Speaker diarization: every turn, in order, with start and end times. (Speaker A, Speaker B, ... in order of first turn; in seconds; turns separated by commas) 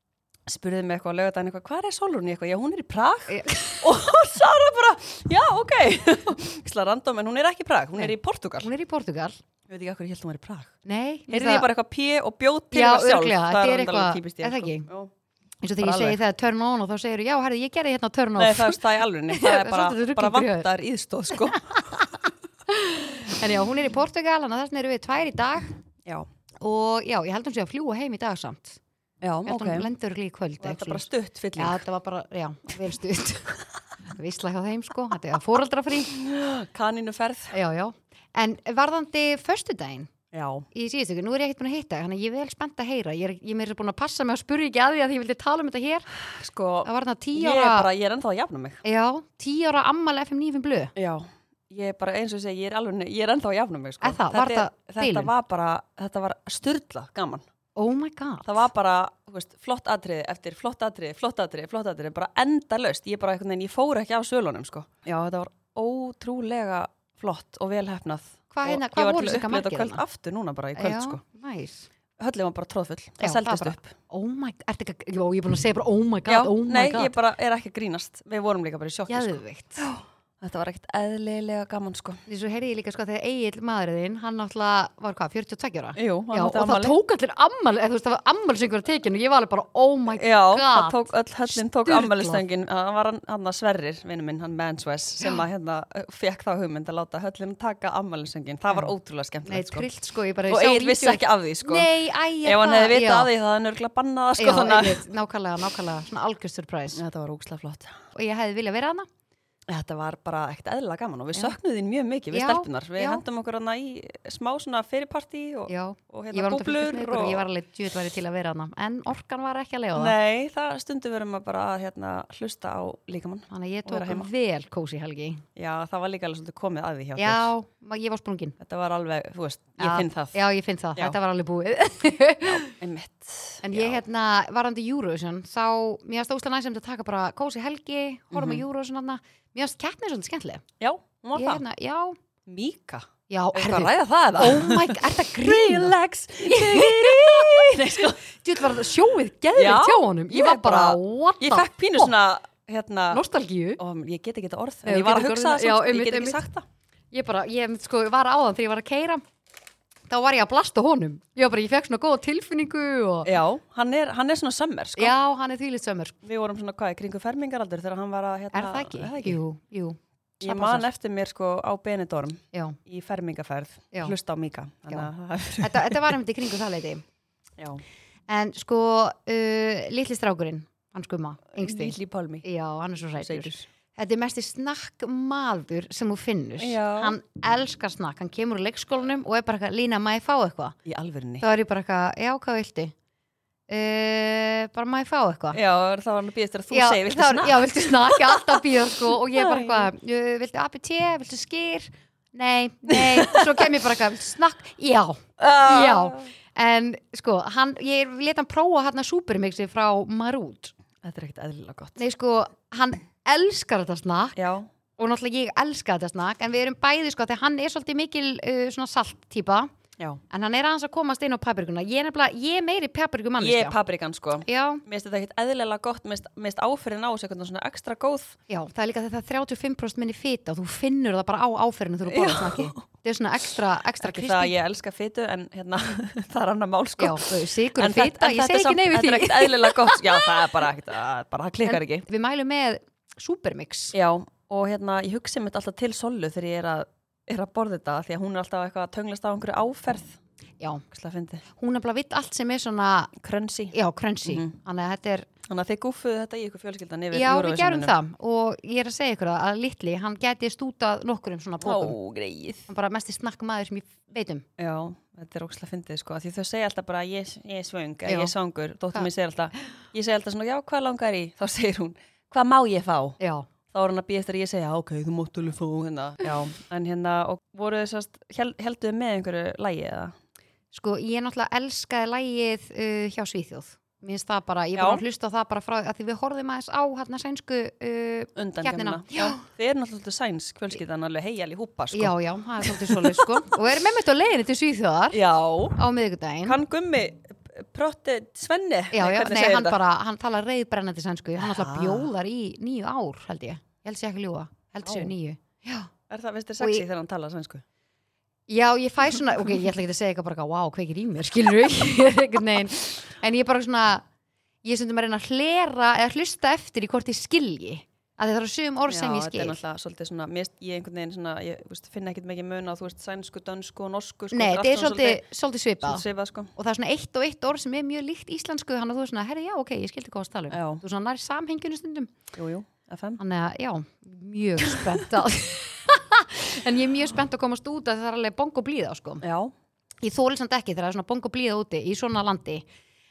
Speaker A: 0.5-8.7, Speaker B: 3.3-3.9, Speaker B: 8.0-9.4, Speaker A: 9.7-10.7, Speaker B: 10.8-11.7, Speaker A: 11.3-15.1, Speaker B: 12.7-14.9, Speaker B: 15.6-20.7, Speaker A: 15.8-16.2, Speaker A: 18.4-22.0, Speaker B: 21.4-25.7, Speaker B: 26.6-28.8, Speaker A: 29.2-29.9, Speaker B: 29.4-36.2, Speaker A: 30.6-31.8, Speaker A: 36.1-37.5, Speaker B: 37.5-40.1, Speaker A: 40.3-40.6, Speaker B: 40.7-46.1, Speaker A: 46.2-48.8, Speaker B: 46.8-47.9, Speaker B: 48.8-50.9, Speaker A: 51.0-57.4, Speaker B: 54.0-55.3, Speaker B: 57.7-58.7, Speaker A: 58.4-71.2, Speaker B: 68.5-70.0, Speaker B: 70.8-71.9, Speaker A: 72.2-73.9, Speaker B: 73.2-77.1, Speaker A: 76.3-82.2, Speaker B: 79.1-79.8, Speaker B: 82.3-92.4, Speaker A: 85.9-87.0, Speaker A: 90.2-99.9, Speaker B: 99.5-103.3, Speaker A: 100.5-105.0, Speaker B: 104.4-107.0, Speaker A: 106.9-108.0, Speaker B: 108.1-109.1, Speaker A: 109.7-117.5, Speaker B: 112.3-113.2, Speaker B: 115.7-120.2, Speaker A: 119.9-124.3, Speaker B: 123.5-125.4, Speaker A: 125.5-127.5, Speaker B: 127.2-128.6, Speaker A: 128.6-130.4, Speaker B: 129.8-132.7, Speaker A: 132.4-134.0, Speaker B: 133.6-140.6, Speaker A: 138.3-138.6, Speaker A: 140.8-141.6, Speaker B: 141.3-142.2, Speaker A: 142.4-148.2, Speaker B: 143.3-152.1, Speaker A: 149.5-153.2, Speaker B: 153.1-153.8, Speaker A: 153.8-156.6, Speaker B: 154.8-156.4, Speaker B: 157.1-159.2, Speaker B: 160.1-163.3, Speaker A: 163.2-165.2, Speaker B: 165.0-166.2, Speaker A: 166.2-169.4, Speaker B: 168.5-170.9, Speaker A: 170.4-176.2, Speaker B: 172.5-172.8, Speaker B: 175.6-177.0, Speaker A: 177.6-177.8, Speaker B: 178.3-190.8, Speaker A: 181.5-182.4, Speaker A: 183.1-183.7, Speaker A: 186.6-187.2, Speaker A: 190.8-191.4, Speaker B: 191.4-192.9, Speaker B: 193.7-195.6, Speaker A: 195.5-199.9, Speaker B: 196.7-210.7, Speaker A: 202.9-203.7, Speaker A: 205.4-206.3, Speaker A: 211.0-212.0, Speaker B: 212.0-214.3, Speaker A: 214.3-214.7, Speaker B: 215.0-219.7, Speaker B: 220.3-223.8, Speaker A: 223.4-228.3, Speaker B: 224.4-224.8, Speaker B: 228.5-234.5, Speaker A: 232.1-232.8, Speaker A: 234.0-242.0, Speaker B: 237.0-240.6, Speaker B: 241.6-243.9, Speaker A: 243.9-250.2, Speaker A: 250.9-251.4, Speaker B: 251.5-253.1, Speaker A: 253.2-254.5, Speaker B: 253.7-255.3, Speaker A: 255.5-257.9, Speaker B: 257.1-261.9, Speaker A: 261.6-262.7, Speaker B: 262.7-264.4, Speaker A: 264.6-273.2, Speaker B: 268.1-268.3, Speaker B: 273.2-273.5, Speaker A: 273.7-280.1, Speaker B: 280.7-289.4, Speaker A: 284.7-285.0, Speaker A: 288.4-293.6, Speaker B: 291.9-295.2, Speaker A: 295.1-295.8, Speaker B: 295.8-296.6, Speaker A: 296.4-299.8, Speaker B: 298.9-305.9, Speaker A: 301.4-302.1, Speaker A: 304.8-305.1, Speaker A: 305.9-307.6, Speaker B: 306.6-306.9, Speaker B: 308.5-314.0, Speaker B: 314.6-319.6, Speaker A: 318.9-325.2, Speaker B: 324.3-332.1, Speaker A: 325.8-326.5, Speaker A: 330.5-330.8, Speaker A: 332.3-333.2, Speaker B: 333.2-339.2, Speaker A: 334.7-334.9, Speaker A: 339.2-339.5, Speaker B: 340.0-342.6